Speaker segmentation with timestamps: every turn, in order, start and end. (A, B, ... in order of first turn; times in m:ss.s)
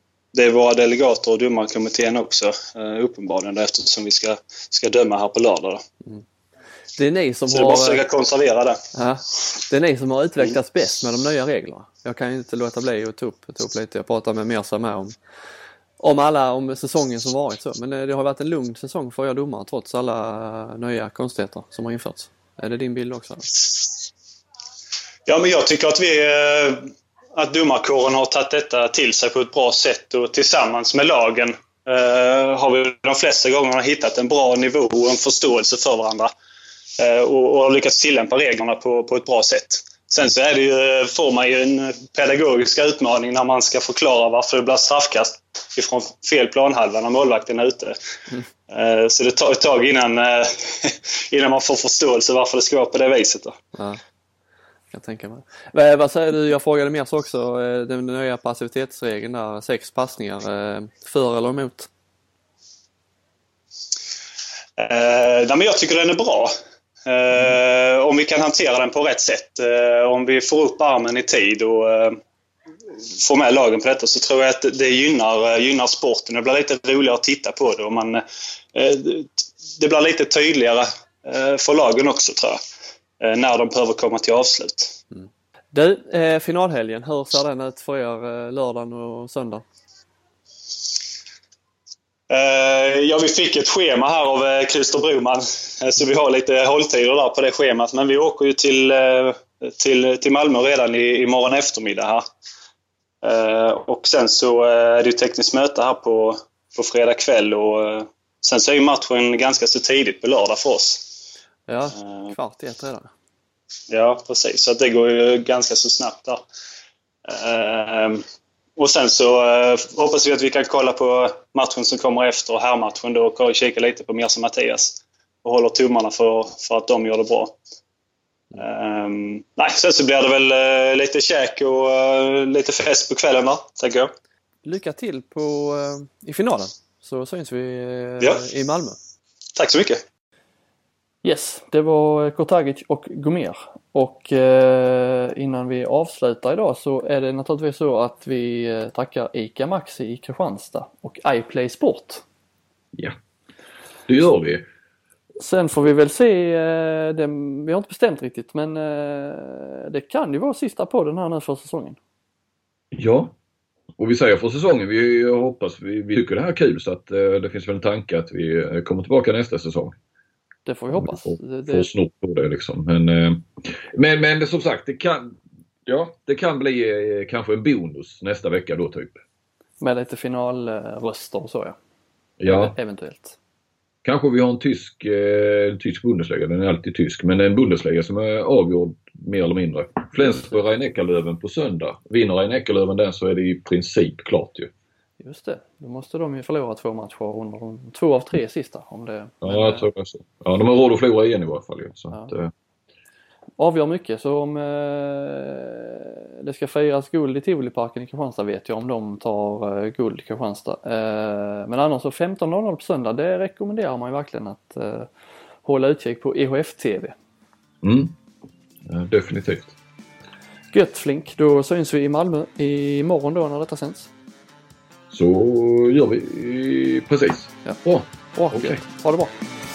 0:00.3-0:05.8 A
0:07.0-0:08.0 B
0:07.5-0:08.8 A
0:08.9-0:15.1 B
0:16.0-0:23.5 B
0:25.3-0:36.3 A
0:37.0-0:48.0 A
0:48.7-0:53.6 A
0:53.7-0:54.0 B
0:54.9-1:01.9 B
1:04.8-1:06.5 A
1:07.0-1:12.2 A
1:13.2-1:22.6 A
1:23.2-1:25.0 A
1:25.1-1:29.6 B
1:32.3-1:42.2 A
1:43.2-1:51.1 A
1:51.7-1:53.1 B
1:52.0-1:52.3 A
1:53.9-1:56.4 A
1:57.2-1:58.2 A
1:58.8-2:07.6 A
2:08.5-2:14.1 A
2:14.6-2:19.0 B
2:19.6-2:20.0 A
2:21.2-2:32.2 B
2:34.1-2:34.6 C
2:35.4-2:42.0 B
2:42.9-2:43.3 C
2:44.0-2:49.9 C
2:50.6-2:51.9 B
2:50.9-2:59.2 C
2:59.8-3:01.8 B
3:02.4-3:02.7 C
3:02.5-3:03.4 B
3:04.0-3:14.7 C
3:10.2-3:10.5 B
3:15.2-3:19.8 B
3:19.4-3:22.5 C
3:23.6-3:35.1 B
3:35.6-3:37.1 B
3:37.8-3:38.1 C
3:38.8-3:39.7 C
3:40.7-3:44.1 B
3:45.1-3:48.8 C
3:48.3-3:49.3 B